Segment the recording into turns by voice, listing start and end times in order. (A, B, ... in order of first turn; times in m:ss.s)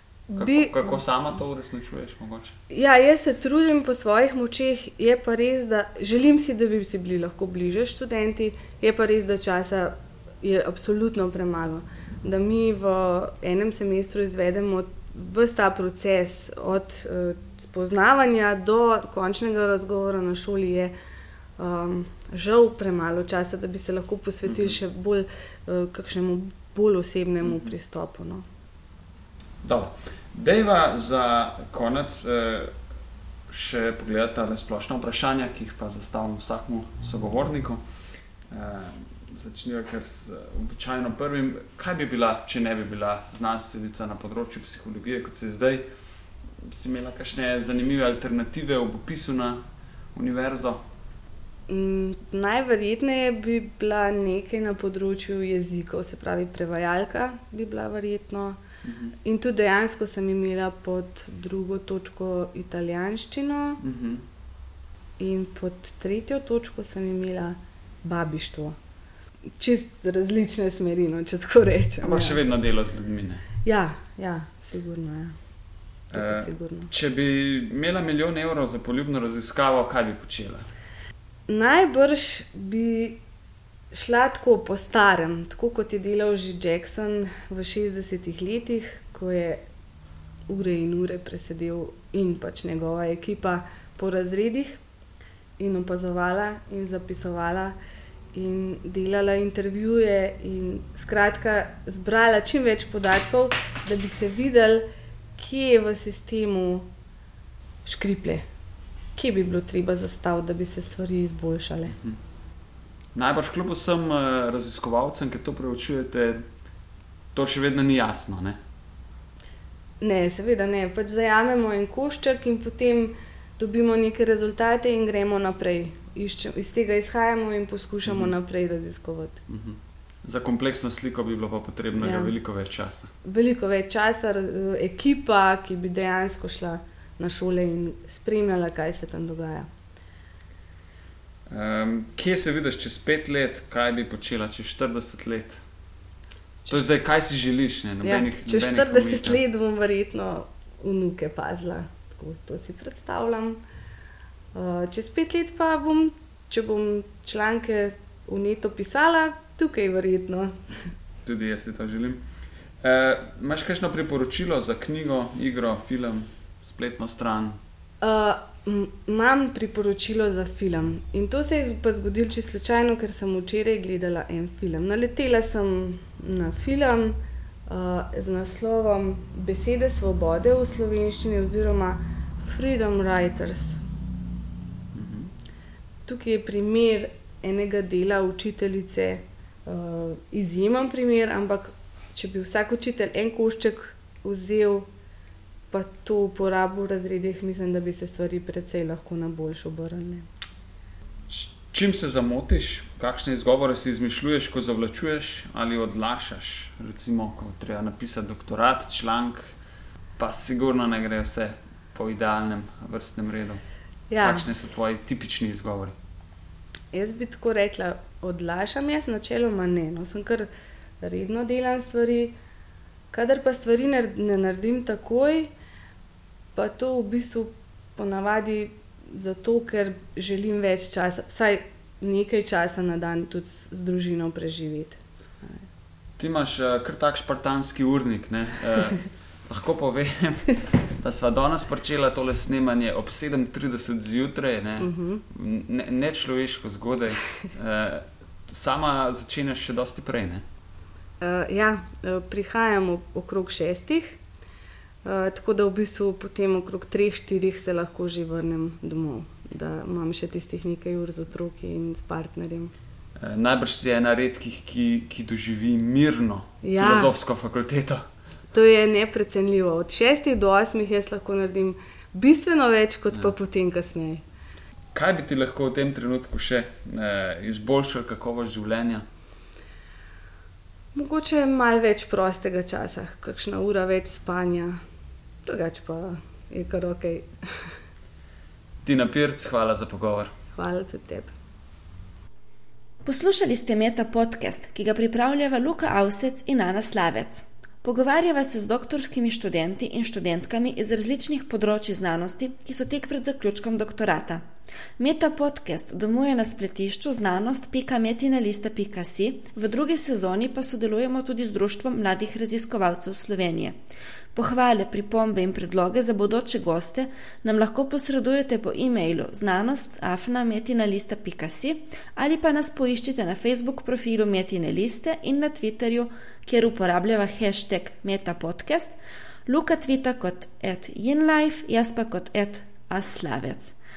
0:00.3-0:01.0 A
0:00.4-0:02.6 B
0:02.7-0:20.9 A
0:21.6-0:28.4 A
0:24.5-0:24.8 B
0:27.4-0:27.7 B
0:29.6-0:32.7 B
0:33.5-0:37.8 B
0:38.5-0:45.8 B
0:46.7-0:49.6 B
0:50.2-0:50.8 B
0:51.7-0:58.6 A
0:58.8-0:59.1 B
0:59.2-1:03.8 A
1:03.8-1:04.2 B
1:05.2-1:08.8 A
1:09.6-1:12.4 A
1:12.0-1:13.4 B
1:13.6-1:15.4 A
1:16.1-1:16.9 A
1:16.1-1:20.7 B
1:21.5-1:23.2 A
1:23.9-1:29.6 A
1:30.5-1:34.8 A
1:35.6-1:37.8 A
1:38.3-1:44.8 A
1:45.4-1:46.9 A
1:47.8-1:48.5 A
1:49.2-1:52.0 A
1:53.2-1:56.4 B
1:57.3-1:58.6 B
2:00.0-2:09.4 A
2:08.0-2:08.3 B
2:09.5-2:13.1 B
2:12.0-2:12.4 A
2:13.2-2:19.7 A
2:21.5-2:25.6 B
2:26.7-2:29.4 B
2:28.0-2:33.6 A
2:34.5-2:40.6 A
2:41.2-2:42.2 B
2:42.8-2:47.6 B
2:48.0-3:03.8 A
3:04.9-3:05.3 B
3:06.1-3:14.9 A
3:15.7-3:20.3 A
3:21.3-3:29.5 B
3:30.2-3:33.6 B
3:34.1-3:34.5 A
3:34.2-3:36.0 B
3:36.9-3:40.5 A
3:41.0-3:42.4 A
3:43.1-3:45.5 A
3:46.6-3:55.7 A
3:56.2-4:10.4 B
4:04.8-4:05.2 A
4:11.2-4:14.2 A
4:15.0-4:22.7 A
4:23.2-4:28.0 B
4:26.6-4:27.1 A
4:28.5-4:34.2 A
4:34.9-4:39.0 B
4:40.9-4:44.8 A
4:45.4-4:47.7 A
4:48.8-4:50.3 B
4:50.6-4:51.3 A
4:53.1-5:04.4 C
5:05.0-5:13.8 C
5:14.4-5:29.0 C
5:29.5-5:33.8 C